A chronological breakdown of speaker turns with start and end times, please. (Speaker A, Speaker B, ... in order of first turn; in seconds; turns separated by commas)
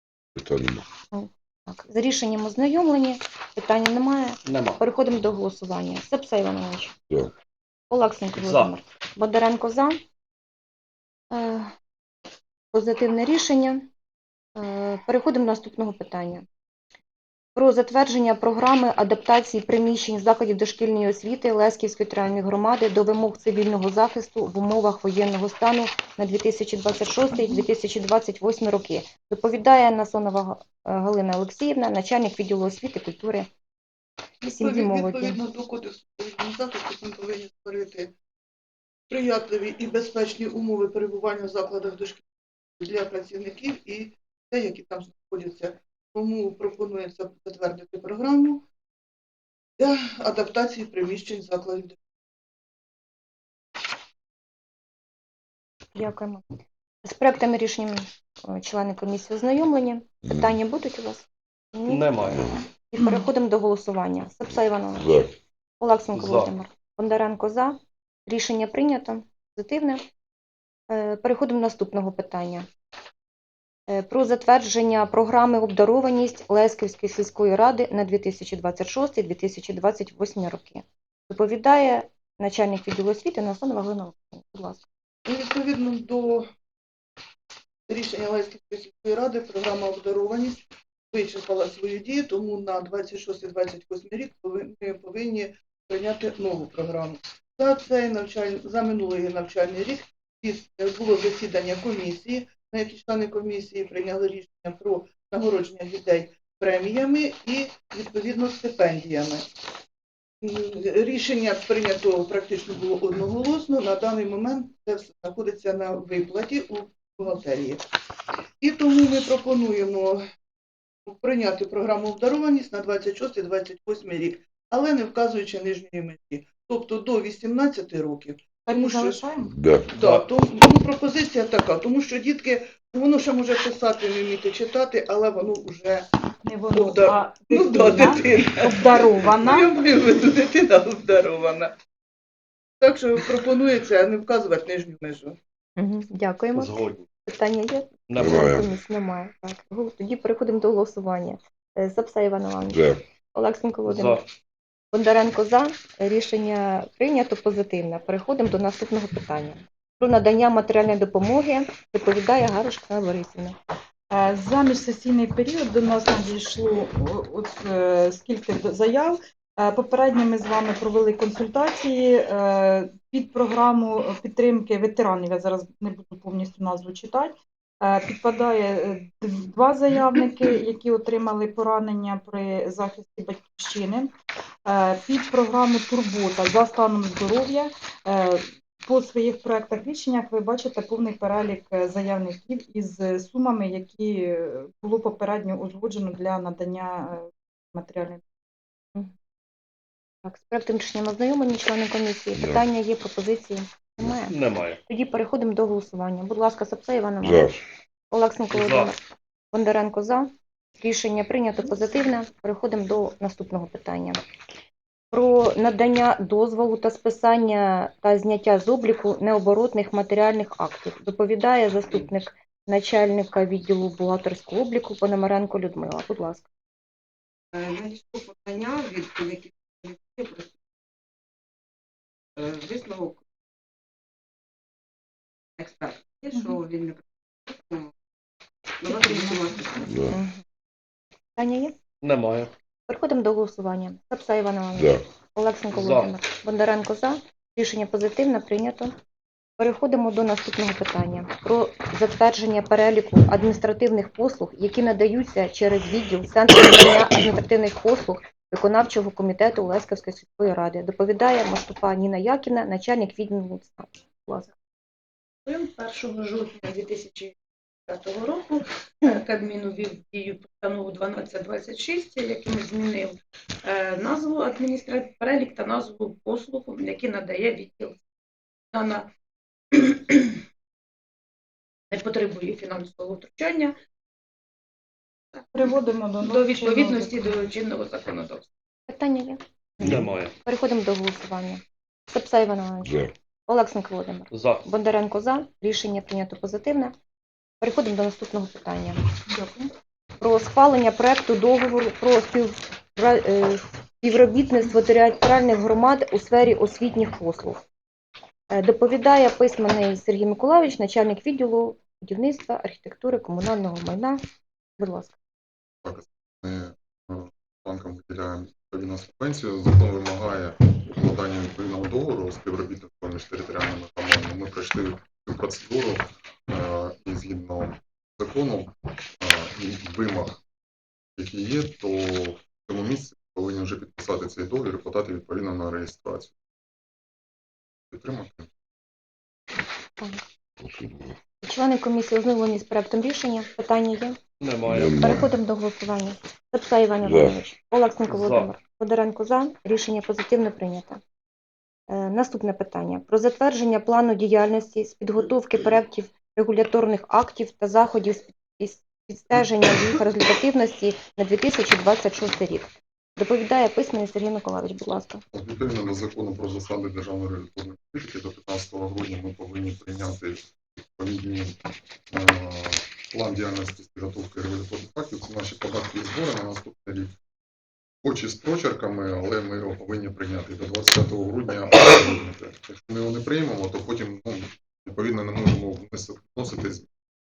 Speaker A: 0.4-0.8, Speaker B: 1.1-6.9, Speaker C: 4.5-4.8, Speaker B: 7.9-10.0, Speaker C: 8.4-8.7, Speaker B: 11.3-11.7, Speaker B: 12.7-13.9, Speaker B: 14.6-16.4, Speaker B: 17.6-33.5, Speaker B: 34.4-35.4, Speaker D: 34.4-38.1, Speaker D: 39.1-42.3, Speaker D: 42.8-48.6, Speaker D: 49.8-52.0, Speaker B: 56.0-56.4, Speaker B: 57.0-62.1, Speaker A: 60.3-60.5, Speaker C: 61.9-62.4, Speaker A: 62.3-62.6, Speaker B: 62.8-65.3, Speaker A: 65.0-65.3, Speaker B: 65.8-70.0, Speaker C: 66.2-66.5, Speaker B: 70.9-72.7, Speaker B: 73.9-84.9, Speaker D: 85.3-86.5, Speaker D: 87.9-109.5, Speaker D: 110.4-117.8, Speaker D: 118.6-120.2, Speaker D: 121.1-136.1, Speaker E: 128.7-129.5, Speaker A: 129.6-129.9, Speaker C: 130.0-130.2, Speaker E: 136.4-139.7, Speaker D: 136.7-141.8, Speaker D: 142.8-145.4, Speaker B: 145.8-154.2, Speaker C: 146.6-147.1, Speaker C: 148.1-148.3, Speaker A: 148.2-148.7, Speaker A: 152.7-153.0, Speaker C: 153.9-154.2, Speaker B: 154.9-163.6, Speaker E: 164.1-184.1, Speaker E: 184.7-198.2, Speaker B: 200.2-204.3, Speaker A: 202.4-202.7, Speaker C: 204.3-204.8, Speaker B: 204.9-207.5, Speaker A: 207.2-207.6, Speaker B: 208.1-209.0, Speaker C: 208.5-208.9, Speaker B: 209.5-214.2, Speaker B: 215.1-226.5, Speaker F: 227.5-230.6, Speaker F: 232.4-233.2, Speaker F: 235.6-237.9, Speaker E: 236.3-236.6, Speaker F: 238.8-240.0, Speaker E: 238.9-239.9, Speaker A: 239.9-240.2, Speaker B: 240.1-240.4, Speaker B: 241.4-241.7, Speaker C: 242.0-242.5, Speaker B: 242.9-248.9, Speaker C: 245.7-246.1, Speaker B: 249.6-264.5, Speaker G: 265.5-267.4, Speaker G: 267.9-278.0, Speaker G: 278.7-279.1, Speaker G: 279.8-280.4, Speaker G: 281.9-283.8, Speaker G: 285.4-288.5, Speaker E: 285.5-287.5, Speaker B: 288.9-289.9, Speaker A: 289.8-290.1, Speaker C: 289.9-290.3, Speaker B: 290.4-296.9, Speaker A: 292.9-293.1, Speaker C: 294.3-294.6, Speaker B: 297.6-299.0, Speaker E: 299.3-299.7, Speaker B: 300.2-307.6, Speaker B: 308.5-314.2, Speaker B: 314.8-315.1, Speaker H: 315.8-330.4, Speaker H: 331.2-336.3, Speaker H: 337.9-338.5, Speaker A: 340.6-341.1, Speaker B: 341.4-344.2, Speaker C: 344.4-345.0, Speaker A: 344.7-345.3, Speaker B: 345.0-351.0, Speaker A: 347.0-347.4, Speaker C: 348.1-348.5, Speaker B: 351.9-365.2, Speaker H: 365.3-371.6, Speaker H: 372.1-377.1, Speaker H: 378.0-386.9